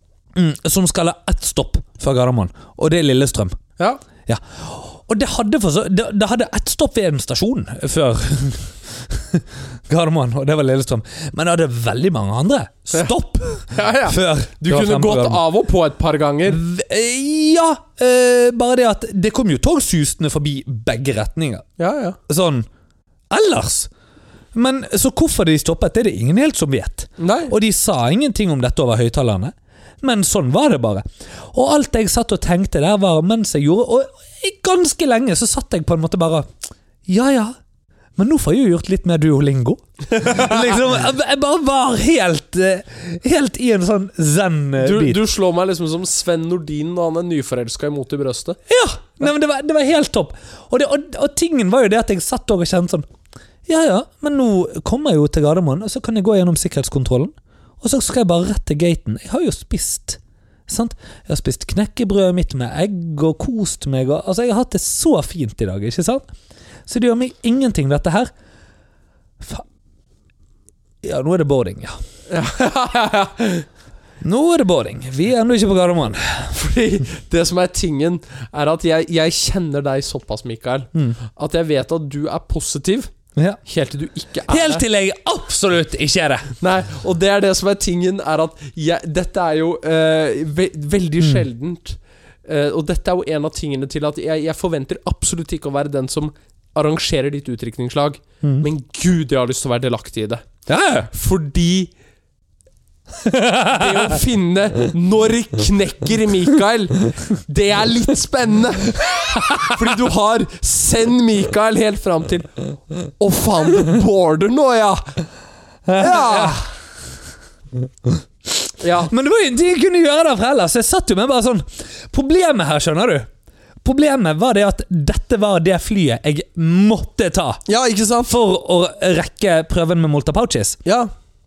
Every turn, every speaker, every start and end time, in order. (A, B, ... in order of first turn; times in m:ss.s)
0:00.3-0:03.6 A
0:04.2-0:15.4 A
0:13.7-0:16.6 B
0:16.5-0:21.6 A
0:21.8-0:22.2 B
0:22.3-0:22.7 A
0:23.3-0:23.9 A
0:24.5-0:36.5 A
0:27.2-0:27.5 B
0:37.0-0:37.5 A
0:38.2-0:45.2 A
0:40.2-0:40.5 B
0:44.8-0:48.6 B
0:48.7-0:53.0 A
0:53.6-1:06.3 A
1:06.9-1:08.3 A
1:09.4-1:09.6 A
1:11.0-1:12.0 A
1:12.3-1:13.7 B
1:14.2-1:16.5 A
1:16.5-1:23.1 B
1:23.6-1:24.8 B
1:24.5-1:26.5 A
1:26.6-1:41.9 B
1:40.7-1:41.1 A
1:43.2-1:44.2 A
1:43.6-1:52.6 B
1:49.2-1:50.0 A
1:53.2-1:55.2 B
1:55.8-1:56.7 A
1:55.9-1:56.7 B
1:58.0-2:03.3 A
1:58.8-1:59.1 B
2:03.8-2:07.6 A
2:07.7-2:08.3 B
2:08.3-2:10.8 A